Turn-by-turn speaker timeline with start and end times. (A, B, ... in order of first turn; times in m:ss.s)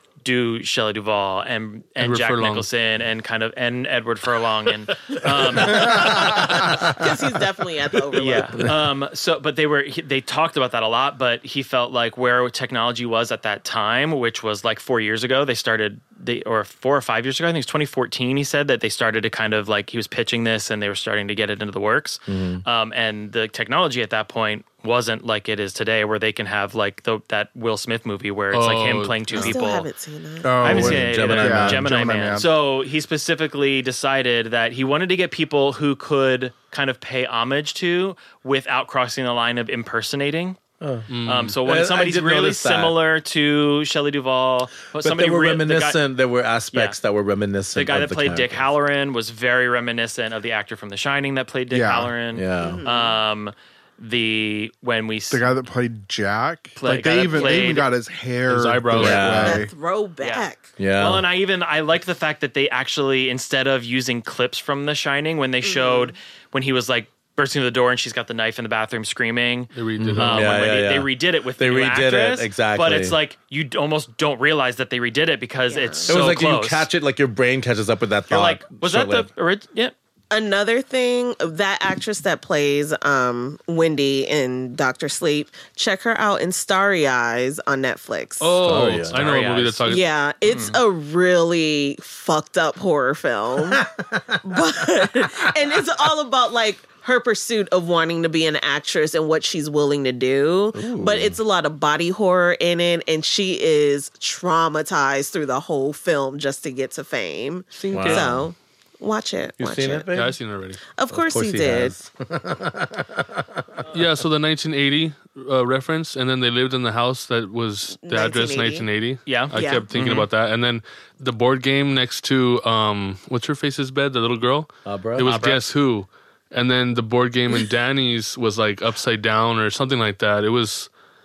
0:00.2-0:06.7 A
0:02.0-0:02.7 B
0:05.6-0:08.7 C
0:05.7-0:07.2 D
0:08.2-0:29.9 A
0:22.3-0:22.6 D
0:28.5-0:29.2 B
0:29.3-0:30.7 C
0:30.4-0:32.5 E
0:30.6-0:31.9 D
0:30.6-0:40.6 A
0:40.8-0:43.0 D
0:41.1-0:41.6 B
0:41.2-0:46.0 A
0:45.0-0:48.8 D
0:46.7-0:47.0 A
0:47.8-0:55.5 A
0:51.7-0:52.2 E
0:52.3-0:52.8 D
0:52.6-0:53.2 C
0:55.3-0:59.7 E
0:56.8-0:57.9 A
0:57.3-0:57.7 C
0:58.5-0:59.4 B
0:58.9-0:59.6 D
0:59.0-1:00.7 C
1:00.2-1:16.9 A
1:00.8-1:01.3 D
1:05.6-1:06.1 C
1:09.7-1:10.5 B
1:10.0-1:13.2 D
1:15.7-1:16.2 C
1:16.0-1:19.3 D
1:18.3-1:19.9 A
1:20.3-1:28.6 C
1:28.4-1:30.1 B
1:28.6-1:29.3 D
1:29.1-1:29.8 A
1:29.9-1:33.8 C
1:30.5-1:30.8 A
1:33.7-1:34.4 D
1:34.4-1:50.1 C
1:35.0-1:35.5 D
1:40.7-1:41.4 D
1:47.8-1:48.3 B
1:47.9-1:48.5 D
1:49.6-1:50.4 D
1:50.1-1:50.8 B
1:51.0-1:51.9 C
1:51.1-1:53.8 D
1:53.9-2:10.9 B
1:58.0-1:58.9 C
1:59.3-2:00.3 A
1:59.5-1:59.8 C
2:04.8-2:05.3 D
2:05.2-2:05.6 A